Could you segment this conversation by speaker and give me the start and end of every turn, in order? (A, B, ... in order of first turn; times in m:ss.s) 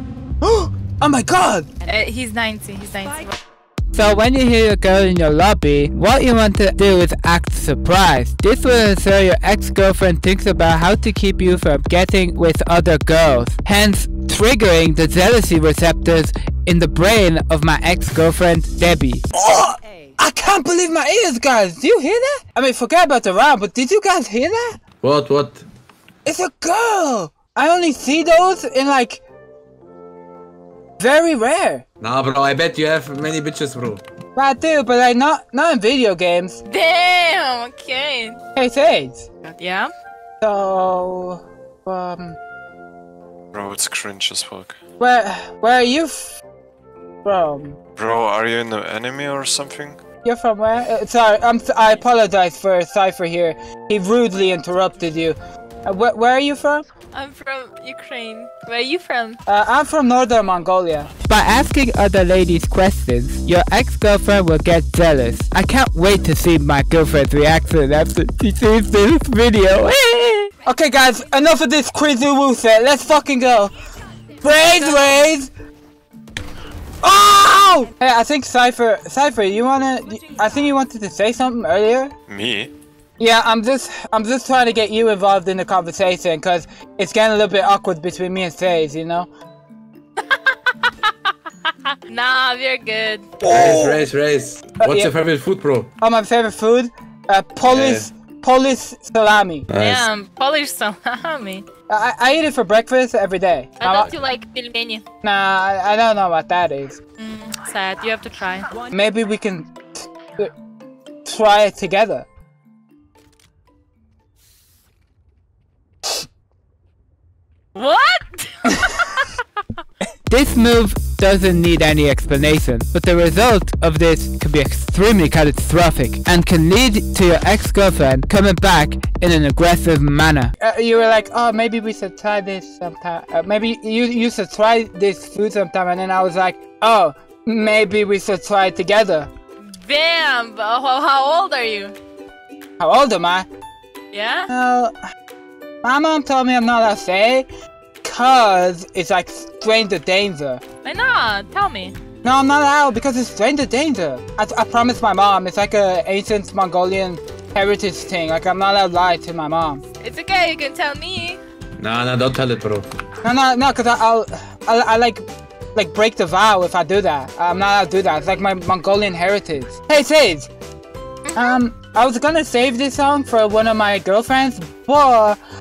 0:00.4-0:01.7 A
0:01.8-0:03.4 B
0:03.9-0:24.8 A
0:25.0-0:25.6 C
0:26.2-0:29.2 A
0:31.0-0:31.8 A
0:32.0-0:34.0 C
0:34.4-0:36.6 A
0:36.7-0:38.4 B
0:38.6-0:39.3 A
0:39.4-0:39.9 B
0:40.4-0:42.4 A
0:43.5-0:44.8 D
0:45.0-0:46.4 A
0:47.2-0:47.8 A
0:48.0-0:50.0 D
0:50.2-0:56.8 A
0:57.1-0:59.4 B
0:59.4-1:13.7 A
1:14.4-1:15.5 A
1:17.0-1:22.1 A
1:22.3-1:22.7 D
1:23.2-1:29.3 A
1:30.2-1:33.3 B
1:33.4-1:34.0 A
1:33.5-1:35.9 C
1:34.8-1:35.1 A
1:36.0-1:39.7 A
1:37.6-1:38.1 C
1:39.7-1:40.1 C
1:39.8-1:41.6 B
1:41.9-1:44.1 A
1:43.8-1:45.0 B
1:45.2-1:47.0 A
1:47.2-1:48.7 B
1:48.9-1:50.5 A
1:51.2-1:52.3 A
1:57.7-1:59.6 B
2:00.3-2:19.3 A
2:19.6-2:21.9 B
2:22.8-2:23.5 A
2:24.1-2:24.5 B
2:24.5-2:24.9 A
2:25.8-2:27.5 A
2:28.0-2:30.6 A
2:30.8-2:31.9 B
2:32.2-2:39.8 A
2:40.0-2:41.4 B
2:41.8-2:42.9 C
2:43.2-2:50.5 A
2:51.3-2:51.6 B
2:51.3-2:55.4 A